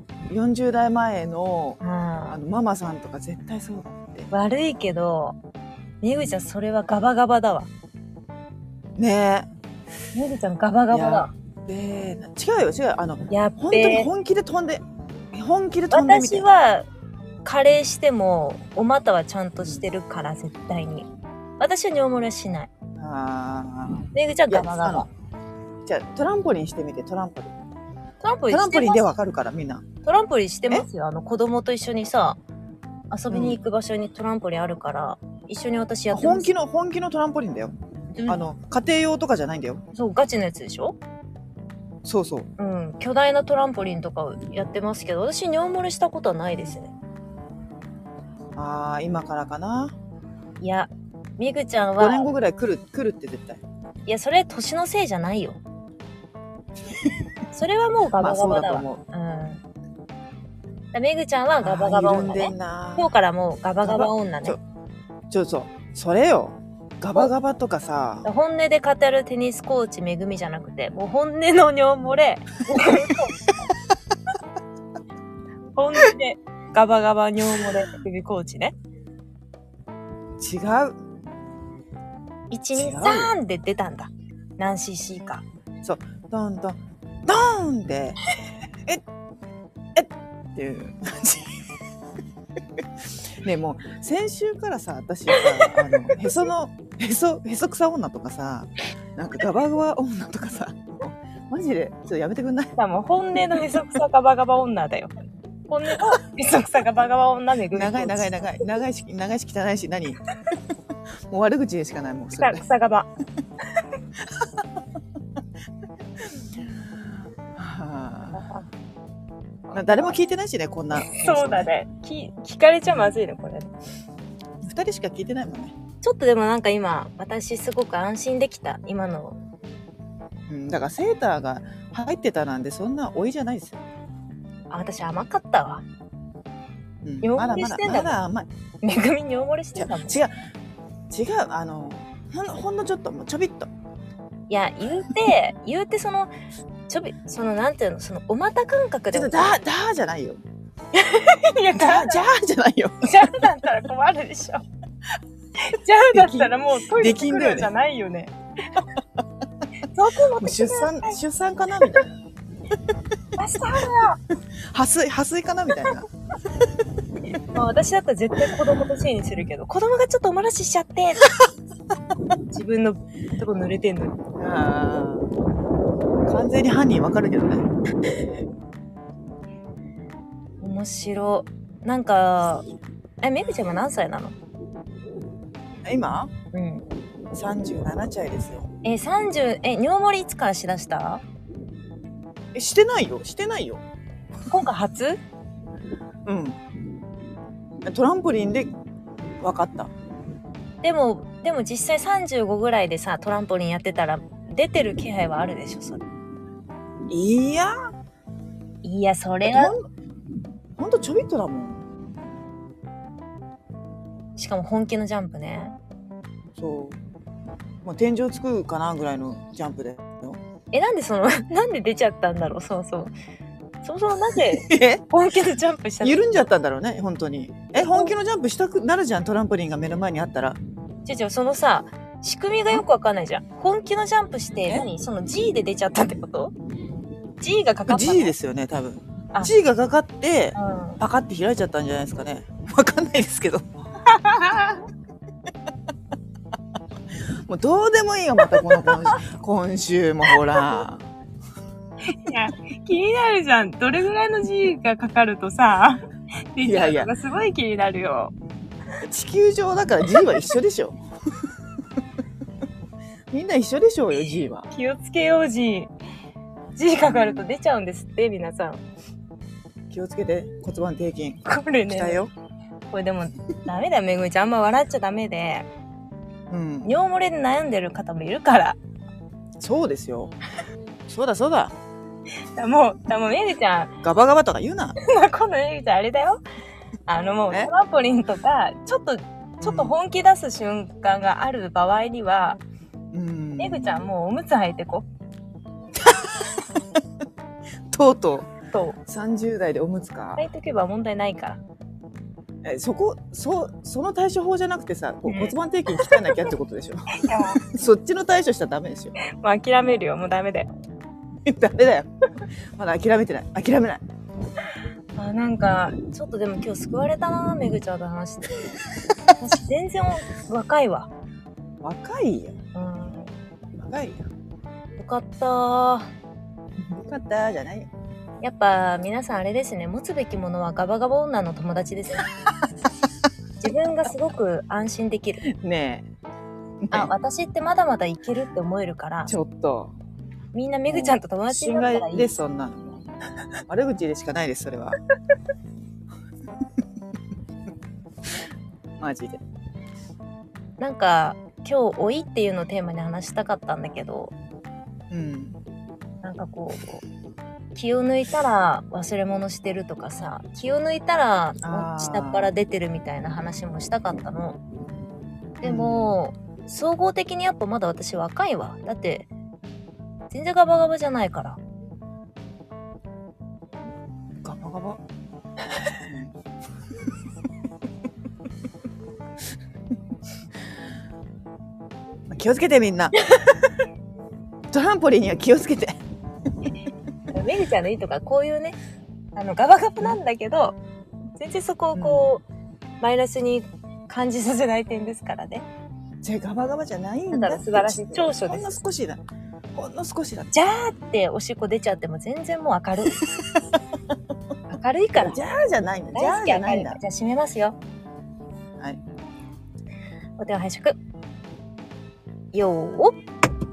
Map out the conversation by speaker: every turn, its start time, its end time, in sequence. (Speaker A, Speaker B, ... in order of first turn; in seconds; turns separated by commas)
Speaker A: 0.3-1.8, Speaker B: 1.8-2.4, Speaker A: 2.3-4.3, Speaker B: 4.3-5.4, Speaker B: 6.0-7.7, Speaker A: 9.0-9.5, Speaker B: 10.1-11.3, Speaker A: 10.9-16.5, Speaker B: 13.3-14.1, Speaker B: 15.9-16.9, Speaker B: 17.4-21.1, Speaker A: 19.6-19.9, Speaker B: 21.6-22.7, Speaker A: 23.0-25.1, Speaker B: 24.1-25.1, Speaker A: 25.9-27.5, Speaker B: 28.2-29.1, Speaker A: 28.5-29.9, Speaker B: 30.0-32.4, Speaker B: 33.1-36.5, Speaker A: 33.3-33.6, Speaker A: 36.1-37.7, Speaker B: 38.1-38.4, Speaker A: 38.3-39.8, Speaker B: 39.9-41.0, Speaker A: 42.0-42.5, Speaker B: 42.6-46.9, Speaker A: 48.5-50.0, Speaker B: 50.6-52.3, Speaker A: 52.0-53.6, Speaker B: 54.1-55.6, Speaker B: 57.5-59.6, Speaker A: 58.2-59.0, Speaker B: 60.9-64.6, Speaker A: 61.6-63.1, Speaker A: 63.8-64.6, Speaker A: 65.3-68.3, Speaker B: 68.2-73.4, Speaker B: 75.8-78.8, Speaker A: 80.4-81.0, Speaker B: 82.5-85.4, Speaker A: 82.7-83.3, Speaker A: 85.8-88.2, Speaker A: 90.0-91.5, Speaker A: 93.4-102.7, Speaker B: 95.3-95.7, Speaker B: 102.8-105.1, Speaker B: 105.7-108.7, Speaker A: 107.7-110.2, Speaker A: 111.3-112.7, Speaker B: 112.4-113.1, Speaker A: 116.4-118.4, Speaker B: 118.3-118.7, Speaker B: 119.7-120.2, Speaker A: 119.7-121.7, Speaker B: 120.9-123.7, Speaker A: 124.6-125.8, Speaker B: 126.0-129.4, Speaker A: 130.5-133.8, Speaker B: 134.7-135.8, Speaker A: 137.0-138.5, Speaker B: 137.2-138.2, Speaker B: 138.8-140.2, Speaker A: 139.8-140.3, Speaker A: 141.1-143.7, Speaker B: 144.5-146.3, Speaker B: 146.9-149.6, Speaker A: 149.1-150.4, Speaker B: 150.9-152.2, Speaker A: 151.7-153.5, Speaker B: 153.0-154.6, Speaker B: 155.6-158.8, Speaker A: 156.1-157.7, Speaker B: 159.9-161.2, Speaker A: 160.4-162.1, Speaker B: 163.4-164.2, Speaker A: 164.7-166.1, Speaker B: 167.5-171.3, Speaker B: 172.5-174.2, Speaker A: 174.4-175.3, Speaker A: 176.3-177.7, Speaker B: 180.6-182.7, Speaker B: 183.2-184.4, Speaker A: 185.8-186.3, Speaker B: 186.5-186.8, Speaker A: 187.3-188.7, Speaker B: 188.8-191.2, Speaker A: 192.5-193.8, Speaker B: 194.5-195.2, Speaker A: 196.2-196.6, Speaker A: 197.8-198.7, Speaker A: 199.4-199.9, Speaker B: 200.8-206.0, Speaker A: 207.1-207.7, Speaker B: 208.8-209.7, Speaker A: 209.5-209.8, Speaker A: 210.8-211.9, Speaker B: 214.4-215.8, Speaker A: 216.6-217.0, Speaker A: 217.8-220.4, Speaker B: 220.7-223.1, Speaker B: 223.8-226.5, Speaker A: 224.5-225.0, Speaker A: 226.0-230.6, Speaker B: 227.7-228.1, Speaker B: 231.1-236.5, Speaker B: 237.4-238.3, Speaker A: 237.9-243.7, Speaker B: 240.6-241.0, Speaker B: 244.1-244.8, Speaker A: 247.5-251.1, Speaker B: 248.6-249.0, Speaker B: 252.1-256.0, Speaker B: 256.5-258.3, Speaker A: 256.6-257.1, Speaker A: 259.1-261.0, Speaker B: 260.1-260.4, Speaker A: 263.3-264.7, Speaker B: 264.7-265.9, Speaker B: 266.8-268.8, Speaker A: 267.0-267.5, Speaker A: 269.9-272.3, Speaker B: 271.5-272.2, Speaker B: 272.9-275.7, Speaker A: 276.5-276.9, Speaker B: 276.8-278.8, Speaker A: 279.6-280.3, Speaker A: 281.1-281.8, Speaker B: 282.6-283.9, Speaker A: 284.0-285.0, Speaker B: 285.0-286.4, Speaker B: 287.1-292.6, Speaker A: 289.6-290.0, Speaker A: 293.1-294.1, Speaker B: 293.6-295.1, Speaker A: 296.0-296.4, Speaker A: 297.9-298.5, Speaker B: 298.7-299.0, Speaker A: 299.1-300.4, Speaker B: 300.4-301.6, Speaker A: 302.6-309.1, Speaker B: 305.3-306.5, Speaker B: 307.3-307.6, Speaker B: 309.2-310.7, Speaker A: 311.4-312.1, Speaker A: 312.8-314.0, Speaker B: 315.2-318.6, Speaker B: 319.4-321.1, Speaker A: 321.8-322.6, Speaker B: 322.8-323.3, Speaker A: 323.8-324.2, Speaker B: 325.0-326.1, Speaker A: 326.9-327.9, Speaker B: 328.4-332.3, Speaker B: 333.6-335.5, Speaker A: 335.6-336.1, Speaker A: 336.9-337.1, Speaker B: 336.9-339.4, Speaker A: 339.3-339.9, Speaker B: 340.5-342.4, Speaker A: 340.9-343.1, Speaker A: 343.7-345.0, Speaker A: 349.0-349.4, Speaker B: 350.8-354.3, Speaker A: 355.1-355.6, Speaker B: 356.2-357.0, Speaker B: 357.7-364.6, Speaker A: 361.6-362.5, Speaker A: 365.6-366.2, Speaker B: 365.6-369.3, Speaker B: 370.3-371.6, Speaker A: 374.4-375.0, Speaker A: 376.0-376.3, Speaker A: 382.3-383.1, Speaker A: 384.7-385.9, Speaker B: 387.3-388.8, Speaker B: 389.4-390.8, Speaker B: 391.4-392.4, Speaker A: 391.9-392.4, Speaker B: 393.0-395.7, Speaker A: 396.2-399.2, Speaker B: 397.3-398.8, Speaker A: 399.8-400.5, Speaker B: 400.5-403.3, Speaker A: 403.2-403.5, Speaker B: 404.7-405.4, Speaker A: 405.2-407.0, Speaker B: 406.1-407.8, Speaker B: 410.4-411.0, Speaker B: 412.5-413.1